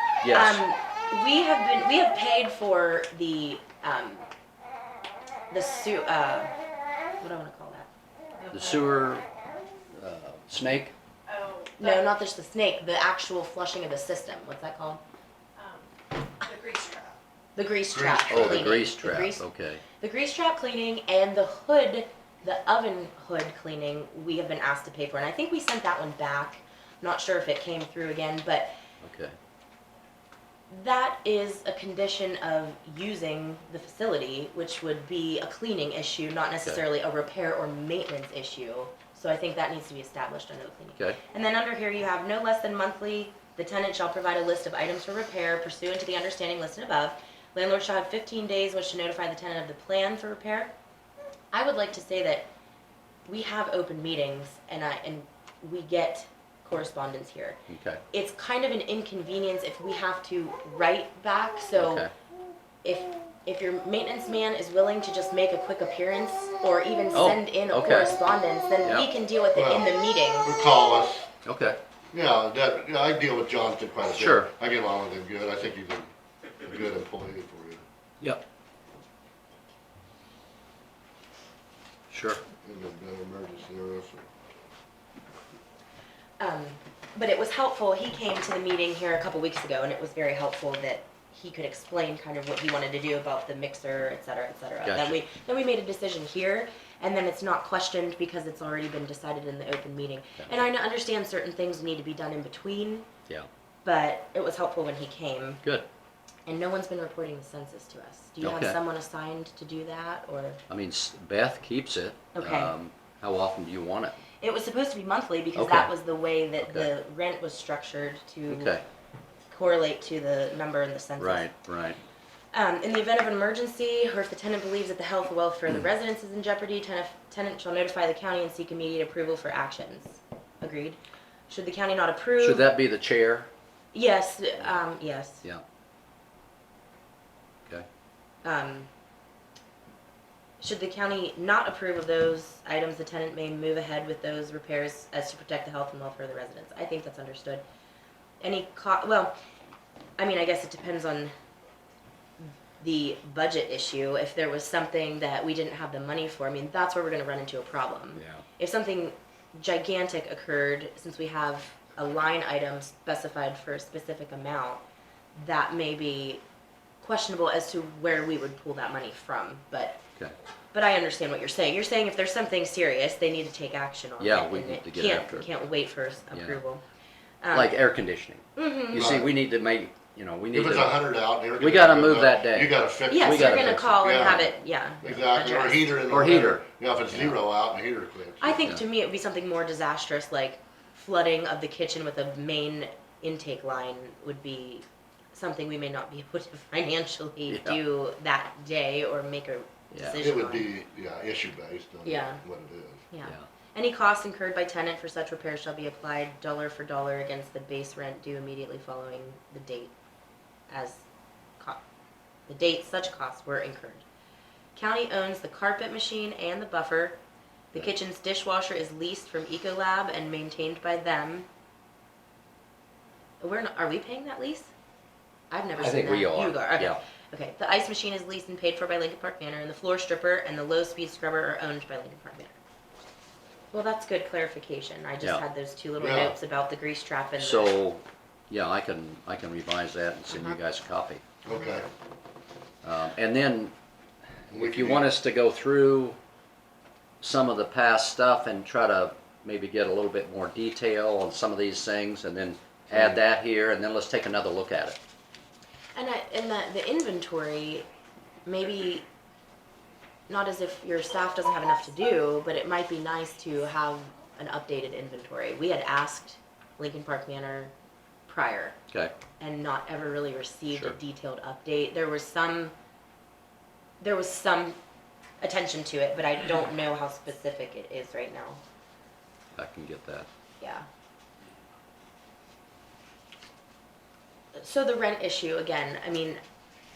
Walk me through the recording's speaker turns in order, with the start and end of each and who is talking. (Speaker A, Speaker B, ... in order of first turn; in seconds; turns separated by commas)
Speaker A: 0.2-0.6, Speaker B: 0.3-4.3, Speaker B: 5.5-6.5, Speaker B: 7.2-7.9, Speaker C: 8.4-8.9, Speaker A: 8.5-9.3, Speaker A: 9.9-10.9, Speaker C: 11.3-12.0, Speaker B: 11.8-15.0, Speaker C: 15.6-15.9, Speaker C: 16.4-17.2, Speaker B: 17.6-19.4, Speaker D: 17.9-18.9, Speaker A: 18.3-19.8, Speaker B: 20.0-28.7, Speaker A: 29.0-29.4, Speaker B: 30.7-50.7, Speaker B: 51.5-52.5, Speaker B: 53.3-57.6, Speaker A: 57.7-58.0, Speaker B: 58.1-62.1, Speaker A: 61.8-62.1, Speaker B: 62.8-70.5, Speaker A: 67.1-68.2, Speaker A: 68.8-69.1, Speaker D: 69.5-71.3, Speaker A: 71.5-71.8, Speaker D: 72.1-76.1, Speaker A: 74.0-74.5, Speaker D: 76.6-77.8, Speaker A: 82.1-82.4, Speaker D: 82.6-84.3, Speaker B: 86.4-103.1, Speaker A: 94.8-95.2, Speaker B: 103.8-105.6, Speaker B: 106.5-110.6, Speaker A: 108.4-108.8, Speaker A: 110.7-114.2, Speaker B: 112.3-112.7, Speaker B: 114.4-118.8, Speaker A: 115.5-115.9, Speaker A: 116.6-116.9, Speaker A: 118.5-118.8, Speaker B: 119.5-121.5, Speaker A: 121.2-122.0, Speaker B: 122.5-131.0, Speaker B: 131.5-132.7, Speaker A: 132.4-133.5, Speaker B: 133.9-135.4, Speaker B: 138.4-138.9, Speaker B: 140.6-147.6, Speaker B: 148.4-149.3, Speaker B: 150.2-151.3, Speaker B: 152.4-164.8, Speaker A: 158.2-158.4, Speaker B: 165.4-166.4, Speaker B: 167.0-170.0, Speaker B: 170.7-176.8, Speaker A: 174.2-175.5, Speaker A: 176.3-176.6, Speaker B: 177.4-177.8, Speaker A: 177.5-181.0, Speaker B: 178.6-179.1, Speaker D: 178.9-179.3, Speaker D: 180.5-188.8, Speaker A: 181.6-184.4, Speaker B: 183.1-186.1, Speaker A: 186.1-187.4, Speaker B: 188.4-200.7, Speaker A: 197.5-197.8, Speaker A: 199.9-200.2, Speaker D: 200.2-203.0, Speaker B: 202.1-202.4, Speaker B: 203.1-209.9, Speaker B: 210.7-211.0, Speaker B: 212.5-214.0, Speaker B: 214.8-217.2, Speaker B: 217.7-221.5, Speaker B: 223.4-224.7, Speaker B: 225.5-232.6, Speaker A: 225.8-227.0, Speaker B: 233.7-237.8, Speaker D: 236.0-236.4, Speaker A: 237.4-241.2, Speaker D: 241.4-241.9, Speaker A: 242.8-243.7, Speaker D: 244.5-245.1, Speaker A: 244.5-246.2, Speaker A: 247.2-255.0, Speaker B: 255.9-257.9, Speaker B: 258.5-259.1, Speaker B: 260.3-267.7, Speaker B: 268.3-268.8, Speaker B: 269.4-272.7, Speaker A: 270.7-271.0, Speaker B: 274.0-274.8, Speaker B: 275.4-278.6, Speaker A: 279.6-280.3, Speaker B: 280.6-280.9, Speaker B: 284.6-286.4